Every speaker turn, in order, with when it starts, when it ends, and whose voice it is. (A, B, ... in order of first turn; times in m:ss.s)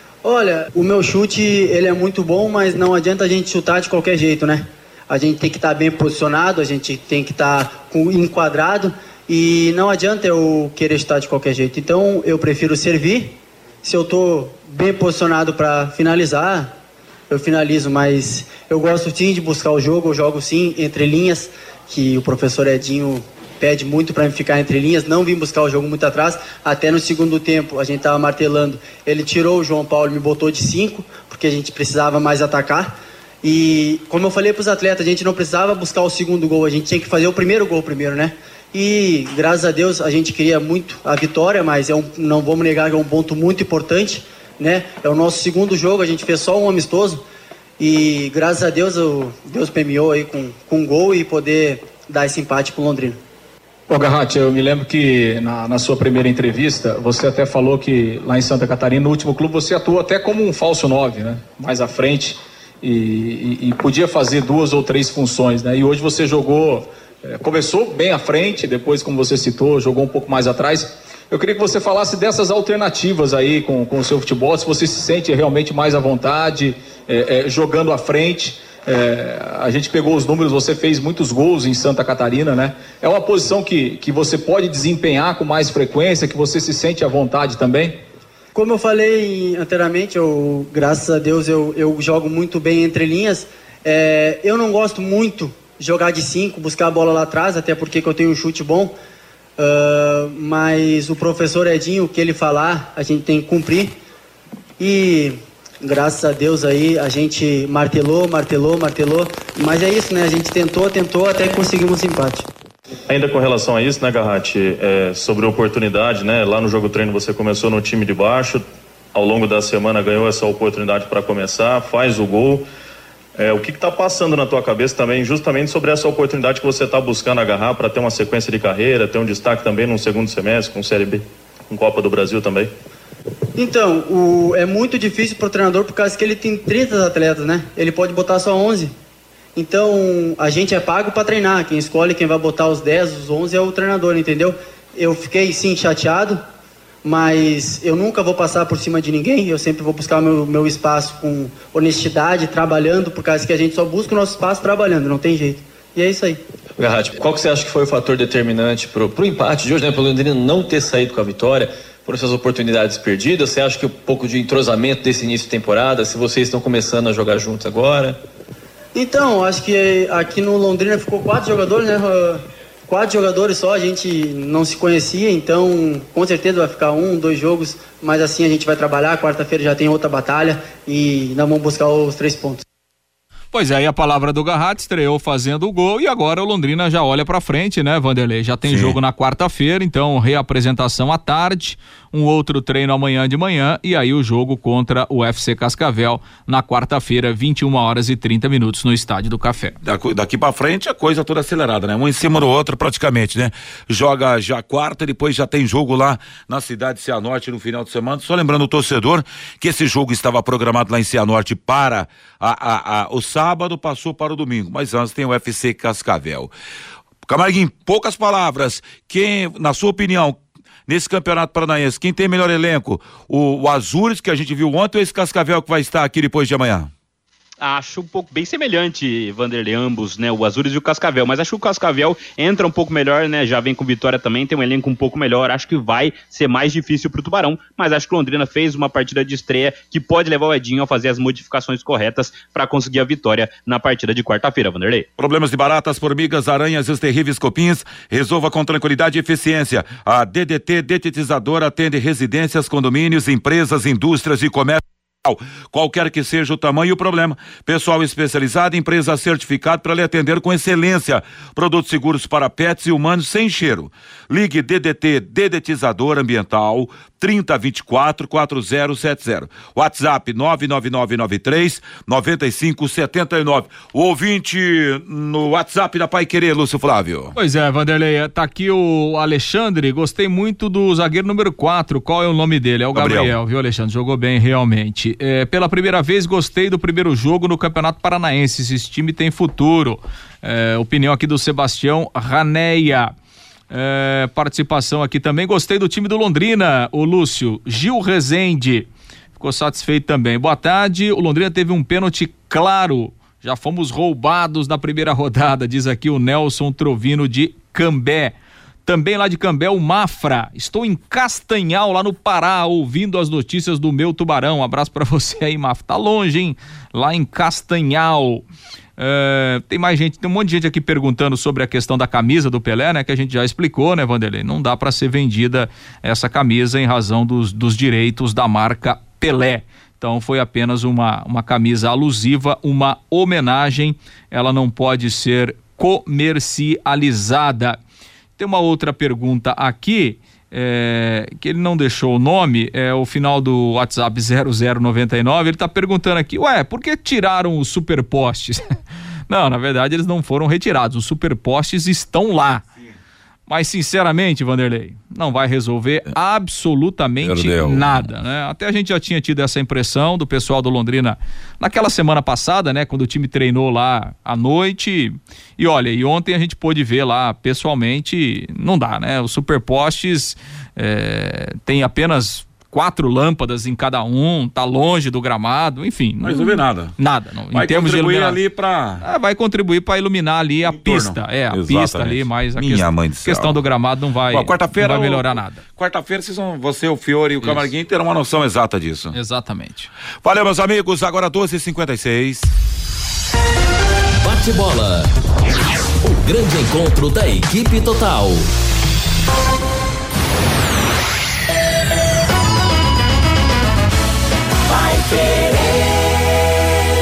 0:00.2-0:16.7 A
0:17.3-0:47.2 A
0:47.8-0:53.2 A
0:53.9-1:28.0 B
1:28.5-1:38.9 A
1:39.6-1:44.0 A
1:44.8-1:52.5 A
1:53.1-2:02.7 C
2:03.3-2:12.7 C
2:13.6-2:18.9 A
2:19.6-2:26.4 A
2:27.0-2:36.4 A
2:36.8-2:48.2 D
2:48.9-3:02.6 A
3:03.5-3:19.8 B
3:08.6-3:09.0 E
3:19.8-3:36.5 E
3:37.2-3:46.9 E
3:47.6-4:05.1 F
4:05.2-4:37.3 E
4:37.4-4:53.1 B
4:42.9-4:43.4 E
4:53.7-5:08.3 B
5:08.8-5:18.4 B
5:19.0-5:37.8 B
5:38.4-5:48.7 B
5:49.3-5:52.6 B
5:53.5-6:18.4 B
5:57.2-5:58.0 E
6:16.2-6:16.9 E
6:17.5-6:19.0 E
6:19.0-6:25.6 B
6:20.6-6:23.6 E
6:24.3-6:29.1 E
6:27.4-6:27.7 B
6:29.1-6:29.9 B
6:30.2-6:32.5 E
6:34.2-6:35.1 G
6:36.0-6:38.5 G